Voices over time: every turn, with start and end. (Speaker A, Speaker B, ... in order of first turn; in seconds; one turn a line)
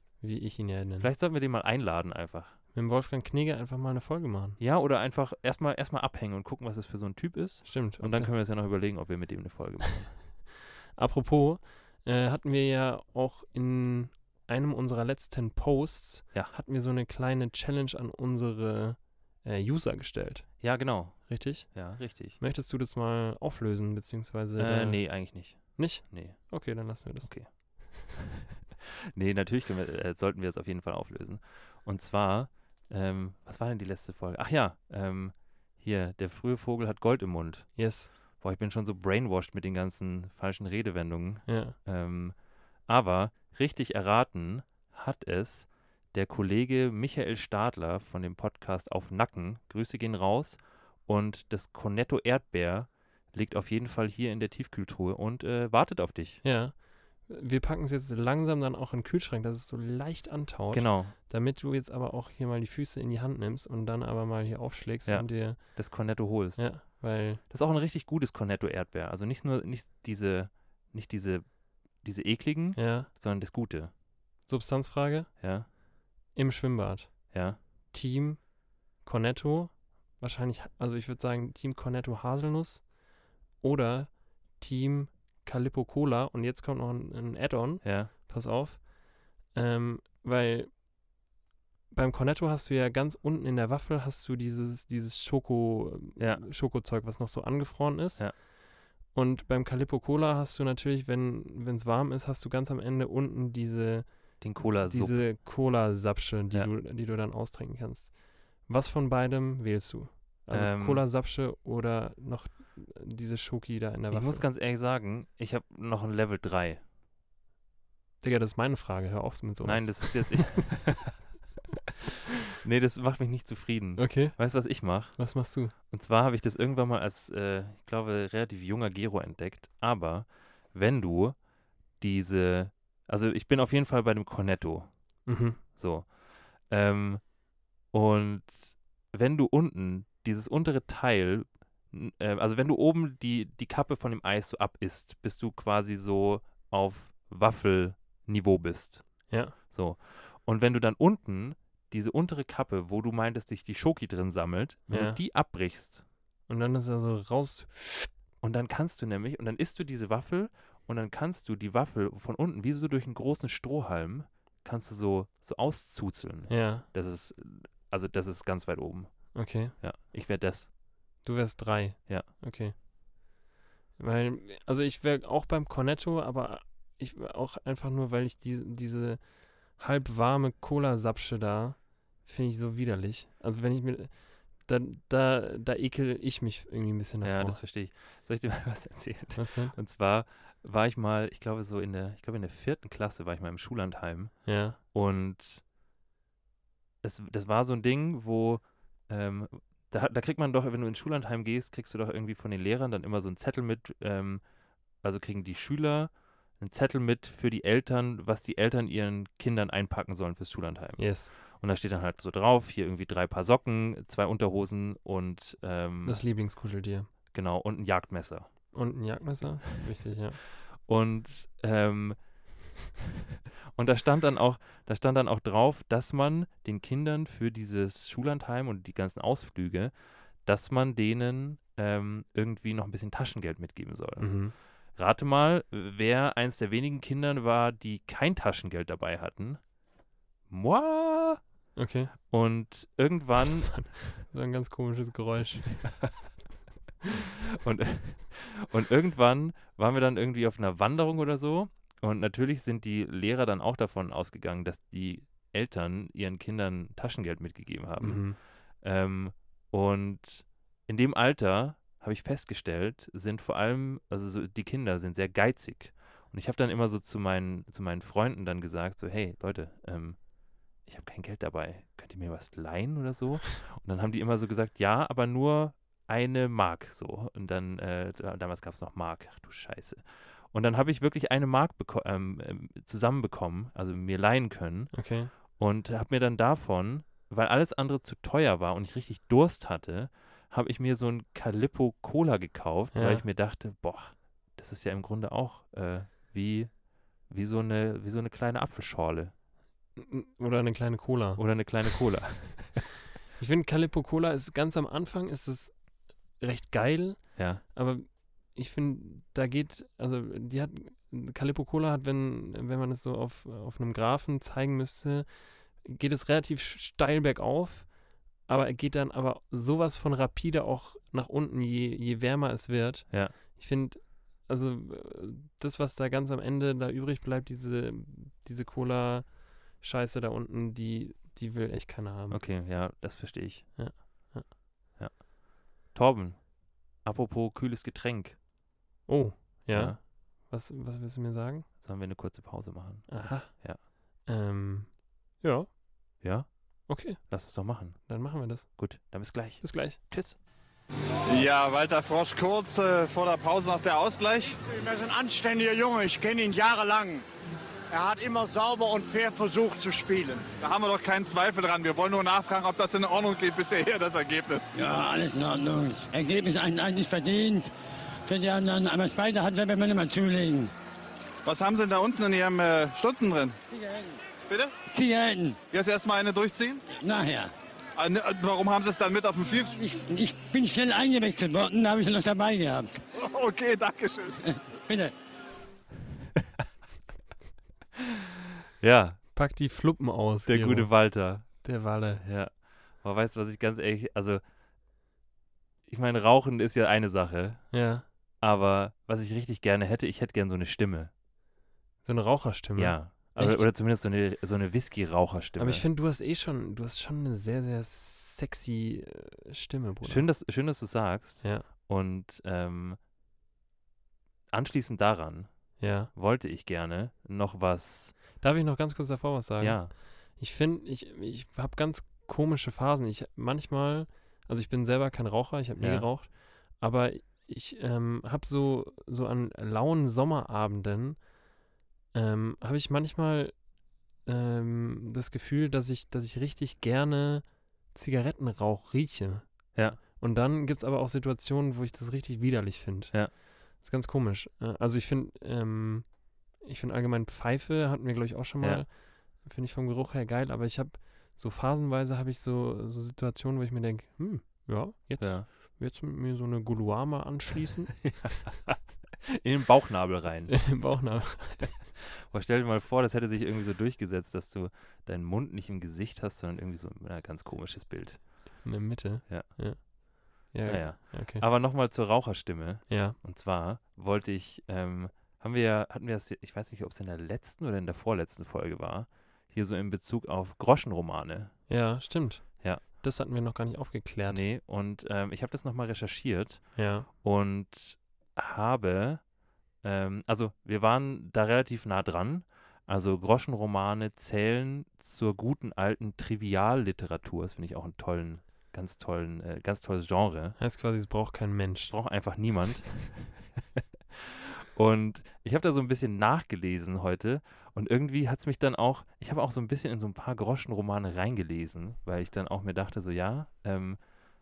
Speaker A: 0.2-1.1
Speaker B: 1.0-2.5
Speaker A: 2.7-4.6
Speaker B: 4.6-10.2
Speaker A: 7.6-8.3
Speaker A: 10.9-20.6
Speaker B: 20.6-22.4
Speaker A: 21.3-27.8
Speaker B: 24.6-28.2
Speaker B: 29.1-56.4
Speaker A: 37.8-38.1
Speaker A: 41.5-41.8
Speaker A: 56.4-67.4
Speaker B: 60.7-61.1
Speaker B: 65.0-73.9
Speaker A: 72.8-73.1
Speaker A: 74.5-75.3
Speaker B: 75.4-75.7
Speaker A: 76.3-77.3
Speaker B: 77.3-77.6
Speaker A: 77.9-83.0
Speaker A: 83.6-90.8
Speaker B: 87.8-88.1
Speaker A: 91.9-98.5
Speaker B: 96.2-96.4
Speaker A: 99.1-114.5
Speaker B: 104.4-105.3
Speaker B: 110.5-111.0
Speaker B: 114.1-116.8
Speaker A: 118.2-120.8
Speaker B: 119.6-121.2
Speaker B: 122.6-131.4
Speaker A: 124.0-125.7
Speaker B: 132.0-134.9
Speaker A: 135.2-135.6
Speaker B: 135.6-137.3
Speaker B: 137.9-156.0
Speaker A: 149.3-149.6
Speaker A: 154.9-155.2
Speaker A: 156.5-158.1
Speaker B: 158.4-170.7
Speaker A: 166.5-166.9
Speaker A: 169.3-169.8
Speaker A: 171.2-172.8
Speaker A: 174.0-187.6
Speaker B: 187.2-195.6
Speaker A: 189.3-189.8
Speaker A: 194.4-194.8
Speaker B: 197.0-204.4
Speaker B: 205.0-216.2
Speaker A: 211.0-211.3
Speaker A: 216.0-217.1
Speaker B: 217.3-218.5
Speaker A: 218.7-220.4
Speaker B: 220.7-222.2
Speaker B: 223.7-239.6
Speaker A: 234.2-234.5
Speaker B: 240.5-241.4
Speaker A: 241.8-242.1
Speaker B: 242.3-244.0
Speaker A: 243.5-245.9
Speaker B: 247.2-270.2
Speaker A: 258.0-258.4
Speaker B: 270.8-299.3
Speaker A: 284.9-285.3
Speaker A: 292.9-293.2
Speaker A: 299.9-301.4
Speaker B: 301.4-302.8
Speaker A: 303.4-305.8
Speaker A: 306.4-332.4
Speaker B: 307.4-307.6
Speaker B: 332.3-333.7
Speaker A: 333.8-334.5
Speaker B: 335.0-335.3
Speaker B: 335.8-338.4
Speaker A: 339.1-341.7
Speaker B: 339.7-340.0
Speaker B: 341.8-343.8
Speaker A: 343.1-345.7
Speaker B: 346.2-350.4
Speaker A: 346.9-347.3
Speaker A: 348.0-348.7
Speaker A: 349.6-350.0
Speaker C: 351.3-354.6
Speaker D: 354.6-357.2
Speaker D: 357.9-360.5
Speaker C: 360.6-364.7
Speaker E: 364.7-367.7
Speaker E: 368.2-370.7
Speaker C: 371.4-373.6
Speaker E: 373.7-374.2
Speaker E: 374.9-375.6
Speaker C: 375.7-376.8
Speaker E: 376.9-377.5
Speaker C: 378.0-379.7
Speaker E: 379.6-383.0
Speaker C: 383.2-384.4
Speaker E: 384.4-385.1
Speaker B: 388.8-389.2
Speaker A: 389.3-392.2
Speaker B: 390.5-391.7
Speaker B: 392.2-394.4
Speaker B: 395.9-397.7
Speaker A: 397.7-398.0
Speaker B: 398.4-401.1
Speaker A: 402.0-403.7
Speaker B: 402.8-405.8
Speaker A: 405.6-410.3
Speaker B: 410.0-413.0
Speaker B: 414.5-418.1
Speaker A: 415.8-416.1
Speaker A: 418.4-431.3
Speaker B: 419.6-419.9
Speaker B: 425.8-426.1
Speaker A: 432.1-433.6
Speaker A: 434.2-458.1
Speaker B: 439.7-440.0
Speaker B: 455.2-455.5
Speaker B: 458.1-460.7
Speaker A: 460.5-461.8
Speaker B: 462.1-468.2
Speaker A: 468.6-471.4
Speaker B: 469.3-469.6
Speaker B: 470.6-481.5
Speaker A: 472.9-473.2
Speaker A: 481.7-484.4
Speaker B: 484.3-489.2
Speaker A: 486.8-487.1
Speaker B: 489.8-500.6
Speaker A: 500.6-501.9
Speaker B: 501.9-514.0